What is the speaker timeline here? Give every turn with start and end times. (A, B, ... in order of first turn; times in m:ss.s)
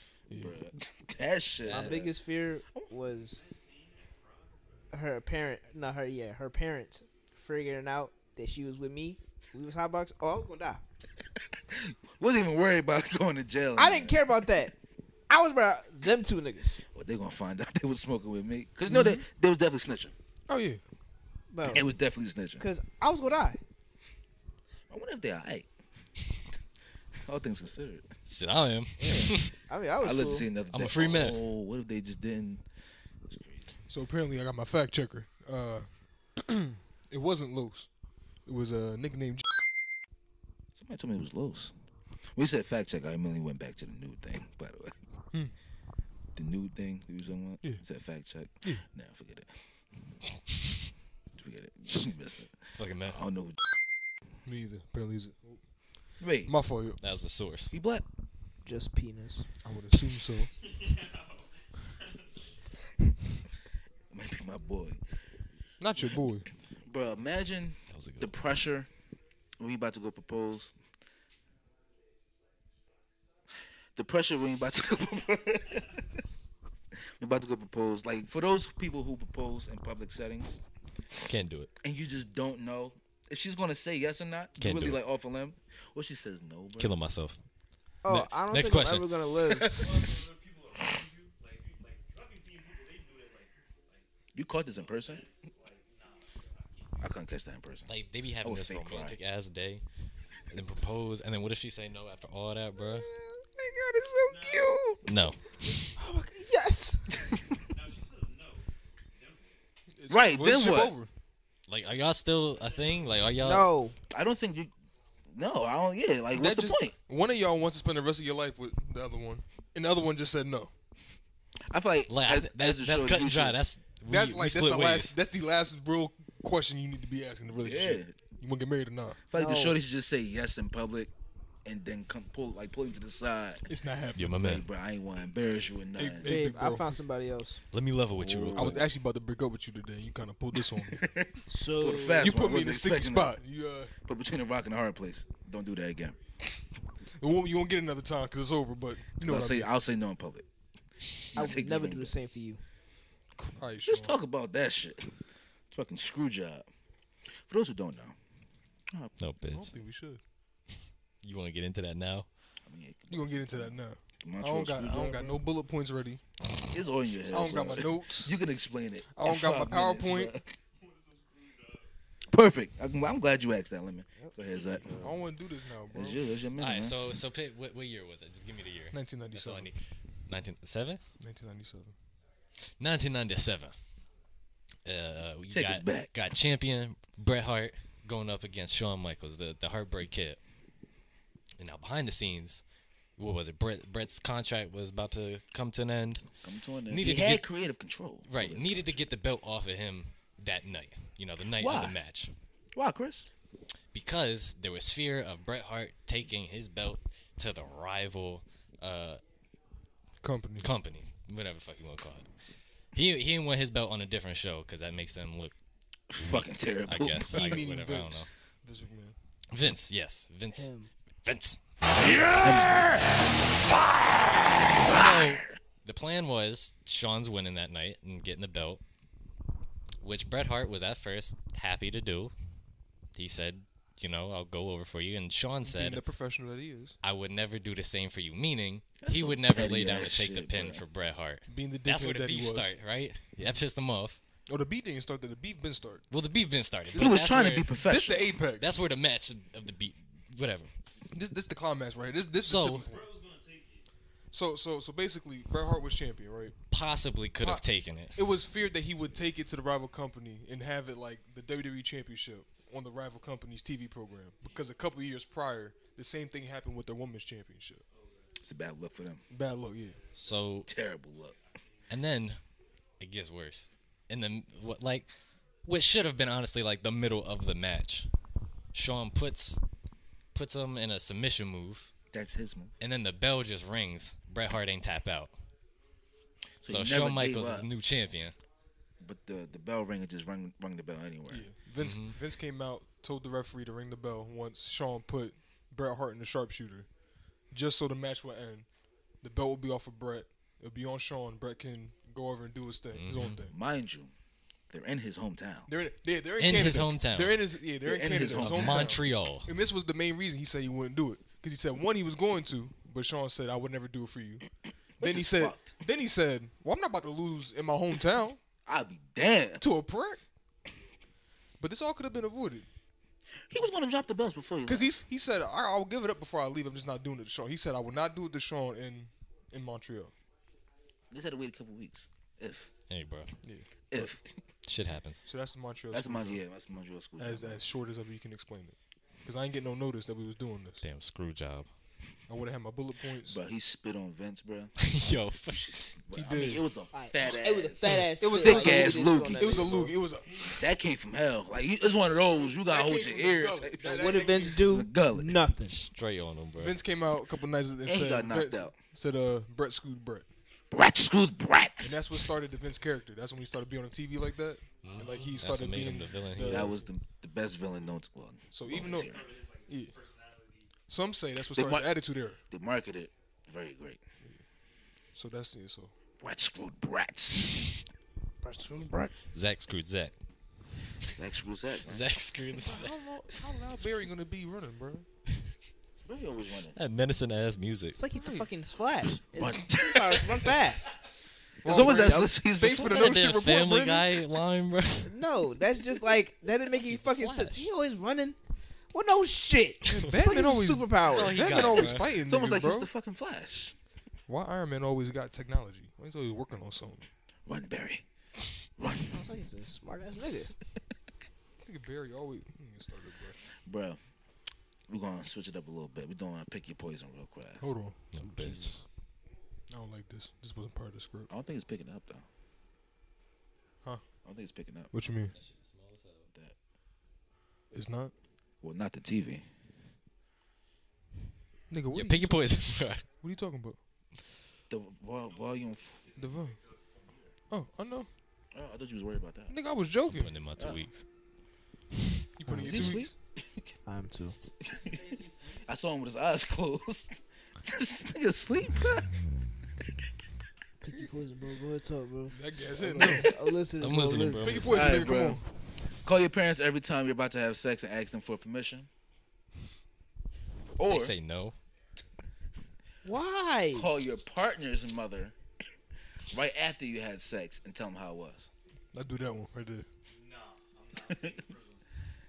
0:00.3-0:00.6 A
0:00.4-0:02.1 B
0:01.6-0:03.4 C
0:01.7-0:02.0 D
0:03.3-0:04.9 E
0:04.9-0:10.8 C
0:11.5-0:14.3 B
0:13.8-0:14.7 C
0:15.3-0:16.8 C
0:16.9-0:20.1 B
0:18.9-0:19.2 A
0:20.5-0:20.8 A
0:21.5-0:21.9 C
0:21.6-0:22.6 B
0:22.6-0:23.6 C
0:24.9-0:25.7 B
0:27.2-0:28.1 B
0:28.3-0:29.5 D
0:29.0-0:30.5 C
0:30.0-0:32.6 B
0:30.7-0:31.4 D
0:33.3-0:33.7 B
0:33.9-0:37.9 A
0:38.5-0:39.5 A
0:40.8-0:41.7 B
0:42.4-0:45.0 B
0:46.4-0:49.6 B
0:51.4-0:53.6 B
0:52.8-0:53.2 D
0:54.5-0:55.6 A
0:56.2-0:56.5 B
0:56.5-0:57.0 A
0:57.0-0:57.8 D
0:57.7-0:58.0 B
0:58.6-0:59.5 C
0:59.6-1:00.5 A
1:00.6-1:02.4 E
1:04.1-1:05.0 B
1:05.8-1:06.5 A
1:06.8-1:08.9 B
1:07.9-1:08.3 D
1:09.6-1:10.7 B
1:14.0-1:16.0 B
1:17.2-1:20.6 B
1:21.2-1:21.7 D
1:21.8-1:26.9 B
1:24.6-1:25.0 D
1:26.8-1:27.4 D
1:28.0-1:29.8 C
1:28.1-1:29.1 D
1:29.5-1:30.2 B
1:29.6-1:34.1 E
1:34.3-1:35.3 B
1:34.7-1:37.2 E
1:37.0-1:37.9 B
1:37.9-1:39.8 D
1:38.4-1:39.2 B
1:40.5-1:43.1 D
1:43.0-1:45.0 C
1:44.3-1:44.8 E
1:45.0-1:45.8 D
1:46.0-1:47.1 C
1:47.6-1:49.6 E
1:50.0-1:51.1 A
1:50.1-1:51.0 B
1:51.7-1:53.7 D
1:52.5-1:53.3 E
1:53.4-1:54.0 C
1:54.1-1:54.7 B
1:55.3-1:57.0 B
1:56.3-2:00.7 A
2:01.7-2:03.6 B
2:02.1-2:05.2 D
2:04.1-2:09.2 A
2:07.5-2:08.2 B
2:09.3-2:11.1 B
2:09.3-2:09.8 C
2:11.6-2:13.7 B
2:13.7-2:14.4 A
2:14.1-2:14.7 D
2:14.4-2:16.4 B
2:15.9-2:17.0 A
2:16.2-2:17.6 C
2:17.7-2:18.9 D
2:18.1-2:18.8 B
2:18.5-2:21.1 A
2:20.9-2:23.4 B
2:21.5-2:22.4 C
2:22.1-2:23.9 A
2:24.0-2:26.2 B
2:27.2-2:29.7 A
2:29.2-2:30.5 B
2:31.3-2:32.2 B
2:31.4-2:32.6 C
2:33.4-2:34.2 A
2:33.8-2:35.2 B
2:35.7-2:36.7 B
2:37.5-2:38.2 B
2:38.9-2:39.1 B
2:39.2-2:39.8 D
2:39.4-2:40.2 A
2:41.2-2:42.3 D
2:42.7-2:45.4 B
2:43.1-2:46.2 A
2:46.7-2:50.5 B
2:47.3-2:48.3 A
2:49.1-2:50.3 A
2:50.8-2:51.9 E
2:52.3-2:55.2 B
2:54.5-2:54.8 E
2:54.9-2:56.2 A
2:55.9-2:57.0 B
2:56.6-3:01.0 D
2:58.9-2:59.7 A
3:01.2-3:01.9 A
3:02.8-3:03.7 D
3:04.8-3:10.4 D
3:05.5-3:06.1 B
3:11.6-3:12.6 D
3:13.2-3:16.3 D
3:16.4-3:19.1 B
3:16.9-3:17.4 D
3:18.3-3:22.3 D
3:21.6-3:22.0 B
3:22.7-3:23.3 B
3:23.9-3:29.2 D
3:30.2-3:30.7 A
3:30.6-3:32.3 D
3:32.9-3:35.6 D
3:36.1-3:37.7 B
3:36.2-3:38.3 D
3:37.2-3:39.2 A
3:39.5-3:40.7 D
3:40.5-3:40.9 C
3:41.2-3:42.9 D
3:42.1-3:43.3 B
3:44.8-3:45.6 B
3:44.8-3:48.8 D
3:50.0-3:52.3 D
3:53.1-3:56.0 D
3:55.6-3:57.0 A
3:57.0-4:04.2 D
3:59.0-4:00.8 B
4:01.5-4:02.7 A
4:04.5-4:06.0 A
4:06.1-4:07.7 D
4:07.0-4:08.3 B
4:07.7-4:08.7 A
4:08.6-4:10.7 D
4:11.1-4:13.1 A
4:12.4-4:12.9 D
4:12.8-4:13.8 E
4:14.3-4:16.6 A
4:16.7-4:18.2 D
4:17.4-4:17.6 A
4:18.2-4:27.8 A
4:27.9-4:28.4 E
4:28.4-4:29.2 B
4:29.3-4:30.0 A
4:29.8-4:30.4 E
4:30.1-4:30.7 D
4:30.6-4:31.4 B
4:31.2-4:32.0 E
4:31.9-4:32.4 D
4:33.0-4:35.1 D
4:35.6-4:38.1 D
4:38.7-4:39.6 D
4:40.3-4:41.9 D
4:42.1-4:42.8 B
4:42.8-4:45.3 D
4:46.6-4:47.7 B
4:46.6-4:48.4 D
4:49.0-4:51.5 B
4:51.3-4:56.9 A
4:51.8-4:52.2 D
4:57.5-4:58.7 A
4:59.2-5:03.5 A
5:03.0-5:03.4 D
5:03.5-5:04.1 B
5:04.7-5:05.7 B
5:05.7-5:14.4 A
5:06.4-5:07.4 D
5:07.8-5:09.0 B
5:08.4-5:09.5 D
5:15.0-5:15.8 B
5:15.0-5:18.4 A
5:18.7-5:19.6 B
5:19.6-5:20.2 A
5:21.6-5:22.7 A
5:23.5-5:25.0 B
5:24.7-5:30.1 A
5:31.1-5:32.7 B
5:32.9-5:33.4 D
5:33.4-5:34.1 A
5:33.9-5:34.3 B
5:34.6-5:35.2 D
5:35.2-5:36.4 A
5:35.9-5:37.6 B
5:37.2-5:40.8 A
5:40.8-5:41.7 D
5:42.3-5:43.4 A
5:43.3-5:44.8 B
5:44.8-5:45.6 D
5:45.5-5:49.9 B
5:46.1-5:46.7 A
5:46.9-5:50.0 C
5:48.2-5:50.6 A
5:50.2-5:50.7 E
5:50.5-5:55.4 B
5:52.0-5:52.5 E
5:52.6-5:54.8 A
5:53.9-5:55.8 C
5:55.7-5:56.8 D
5:56.6-6:00.3 A
5:57.8-5:58.7 B
6:00.7-6:02.2 B
6:01.8-6:06.8 A
6:04.8-6:06.8 D
6:04.9-6:05.4 E
6:06.4-6:09.2 B
6:08.5-6:09.9 A
6:08.7-6:10.7 E
6:10.8-6:12.4 A
6:11.5-6:11.9 B
6:12.5-6:14.0 B
6:15.2-6:15.9 A
6:16.2-6:17.8 B
6:18.4-6:19.1 C
6:19.3-6:20.2 D
6:21.1-6:22.1 B
6:21.9-6:23.0 D
6:22.6-6:25.1 A
6:26.0-6:26.8 B
6:26.8-6:28.0 D
6:28.0-6:31.0 C
6:28.1-6:28.5 A
6:29.4-6:30.5 B
6:31.6-6:33.2 B
6:31.6-6:34.2 A
6:31.7-6:32.3 C
6:32.7-6:35.1 D
6:35.0-6:38.4 C
6:36.8-6:37.7 D
6:38.9-6:41.4 C
6:39.9-6:42.9 A
6:39.9-6:40.3 D
6:41.0-6:42.2 D
6:42.2-6:43.8 B
6:44.3-6:47.0 A
6:47.5-6:48.0 B
6:48.8-6:49.2 B
6:49.1-6:50.5 C
6:51.6-6:53.4 A
6:53.7-6:54.0 B
6:54.9-6:57.7 B
6:57.6-6:58.8 A
6:58.1-6:58.7 D
6:59.7-7:01.3 A
7:01.3-7:02.3 B
7:04.2-7:04.9 B
7:04.9-7:05.3 A
7:05.3-7:06.3 D
7:06.3-7:06.6 B
7:07.7-7:08.1 A
7:08.6-7:09.5 B
7:11.7-7:12.5 A
7:11.9-7:13.1 D
7:13.2-7:13.8 A
7:14.7-7:16.0 B
7:15.2-7:17.4 E
7:16.2-7:16.6 A
7:17.5-7:18.1 A
7:18.5-7:19.6 B
7:19.5-7:20.4 A
7:20.1-7:21.0 D
7:20.6-7:20.8 B
7:22.4-7:23.1 A
7:22.5-7:22.9 C
7:22.5-7:23.7 B
7:23.9-7:24.4 C
7:24.6-7:29.1 B
7:24.7-7:25.6 E
7:30.8-7:34.6 C
7:32.3-7:33.4 A
7:33.8-7:34.9 D
7:34.4-7:35.5 A
7:34.7-7:35.4 B
7:36.0-7:38.9 B
7:40.8-7:41.2 B
7:40.9-7:41.6 D
7:43.0-7:43.9 C
7:43.7-7:45.4 B
7:46.3-7:48.5 B
7:48.9-7:49.9 A
7:50.1-7:51.8 E
7:51.1-7:51.4 B